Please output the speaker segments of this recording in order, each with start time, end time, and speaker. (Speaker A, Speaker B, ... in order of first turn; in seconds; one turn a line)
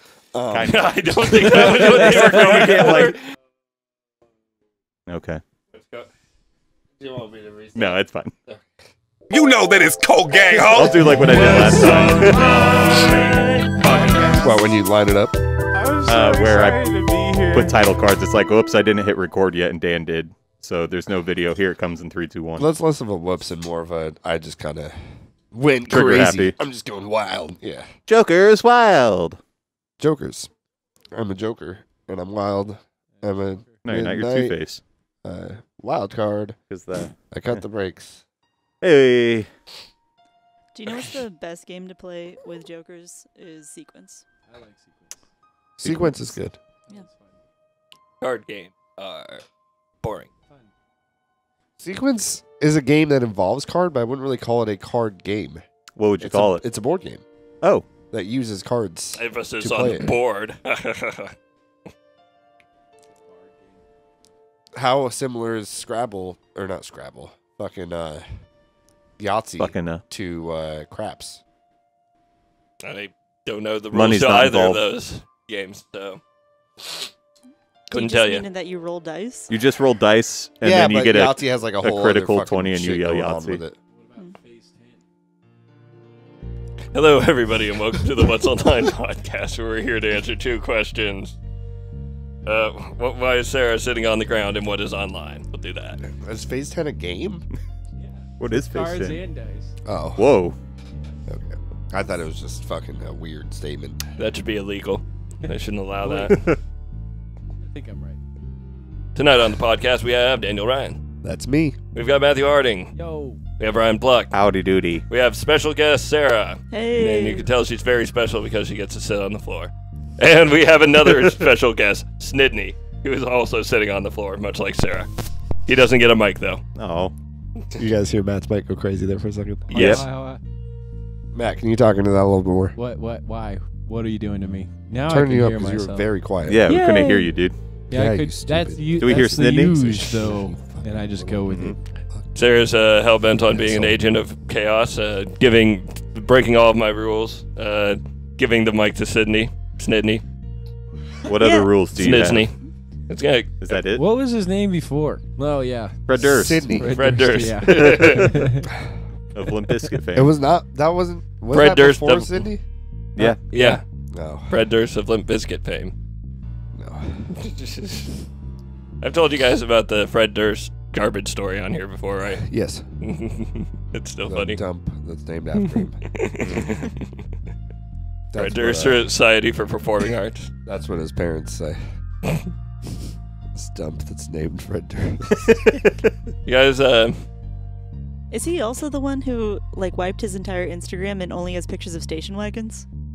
Speaker A: 0.3-1.4
Speaker B: 0.5-3.2
Speaker C: 0.6-3.2
Speaker B: 5.1-5.4
Speaker C: 5.8-6.1
Speaker A: 7.0-8.7
Speaker B: 7.7-8.3
Speaker D: 9.3-14.3
Speaker B: 10.7-12.4
Speaker E: 11.4-12.3
Speaker F: 12.4-13.2
Speaker E: 14.1-14.5
Speaker A: 14.4-15.3
Speaker E: 15.7-17.8
Speaker B: 16.1-22.7
Speaker A: 22.6-27.9
Speaker B: 25.9-26.6
Speaker B: 28.1-29.4
Speaker A: 30.0-30.5
Speaker A: 31.1-34.5
Speaker E: 33.2-33.8
Speaker B: 33.8-34.8
Speaker A: 35.2-36.6
Speaker B: 36.7-37.6
Speaker A: 37.3-38.2
Speaker B: 38.8-39.5
Speaker F: 40.7-44.2
Speaker E: 44.5-45.2
Speaker A: 45.8-46.5
Speaker B: 45.8-46.1
Speaker E: 46.9-47.3
Speaker C: 48.2-49.4
Speaker C: 50.0-50.3
Speaker A: 51.8-55.6
Speaker B: 56.0-56.6
Speaker A: 56.2-57.2
Speaker A: 58.1-60.1
Speaker C: 59.2-61.3
Speaker A: 64.7-68.2
Speaker A: 69.2-71.4
Speaker B: 69.6-70.0
Speaker C: 72.8-76.2
Speaker B: 73.9-74.8
Speaker C: 77.9-78.4
Speaker F: 77.9-79.5
Speaker B: 79.5-83.6
Speaker A: 80.6-83.8
Speaker E: 84.0-85.0
Speaker C: 86.9-91.3
Speaker C: 92.5-96.0
Speaker A: 96.0-97.5
Speaker E: 98.0-99.7
Speaker B: 98.4-99.2
Speaker A: 99.8-100.2
Speaker B: 100.2-100.6
Speaker A: 101.3-104.0
Speaker C: 104.2-106.4
Speaker E: 105.4-106.3
Speaker B: 106.3-106.6
Speaker E: 107.6-108.2
Speaker C: 109.1-111.0
Speaker A: 111.2-111.8
Speaker C: 111.9-113.0
Speaker E: 112.9-113.4
Speaker C: 113.6-114.3
Speaker B: 114.3-115.0
Speaker C: 115.1-125.1
Speaker F: 116.7-117.5
Speaker C: 125.7-126.6
Speaker B: 126.7-127.1
Speaker A: 127.7-129.8
Speaker C: 129.7-130.0
Speaker E: 129.7-130.4
Speaker B: 129.7-130.1
Speaker A: 131.3-132.8
Speaker E: 132.8-136.1
Speaker A: 135.0-136.7
Speaker B: 136.5-137.5
Speaker E: 136.7-137.3
Speaker A: 137.9-141.3
Speaker E: 137.9-141.8
Speaker B: 139.0-140.2
Speaker B: 141.5-141.8
Speaker C: 142.3-150.2
Speaker B: 151.2-152.5
Speaker F: 151.4-151.7
Speaker C: 151.9-153.8
Speaker B: 153.6-154.0
Speaker E: 153.9-158.7
Speaker B: 156.1-156.8
Speaker A: 156.2-156.9
Speaker C: 156.9-158.4
Speaker B: 159.3-160.3
Speaker A: 160.1-162.6
Speaker C: 161.5-162.5
Speaker E: 163.2-163.8
Speaker C: 163.5-163.8
Speaker A: 164.1-164.5
Speaker C: 164.5-165.9
Speaker A: 166.7-167.3
Speaker C: 167.4-168.2
Speaker C: 169.0-174.6
Speaker A: 172.4-172.9
Speaker A: 174.3-176.0
Speaker C: 176.1-177.1
Speaker B: 176.4-176.8
Speaker A: 178.3-179.0
Speaker C: 178.4-180.5
Speaker A: 180.6-181.8
Speaker A: 183.5-185.6
Speaker B: 185.5-185.8
Speaker C: 186.4-187.2
Speaker F: 188.3-192.8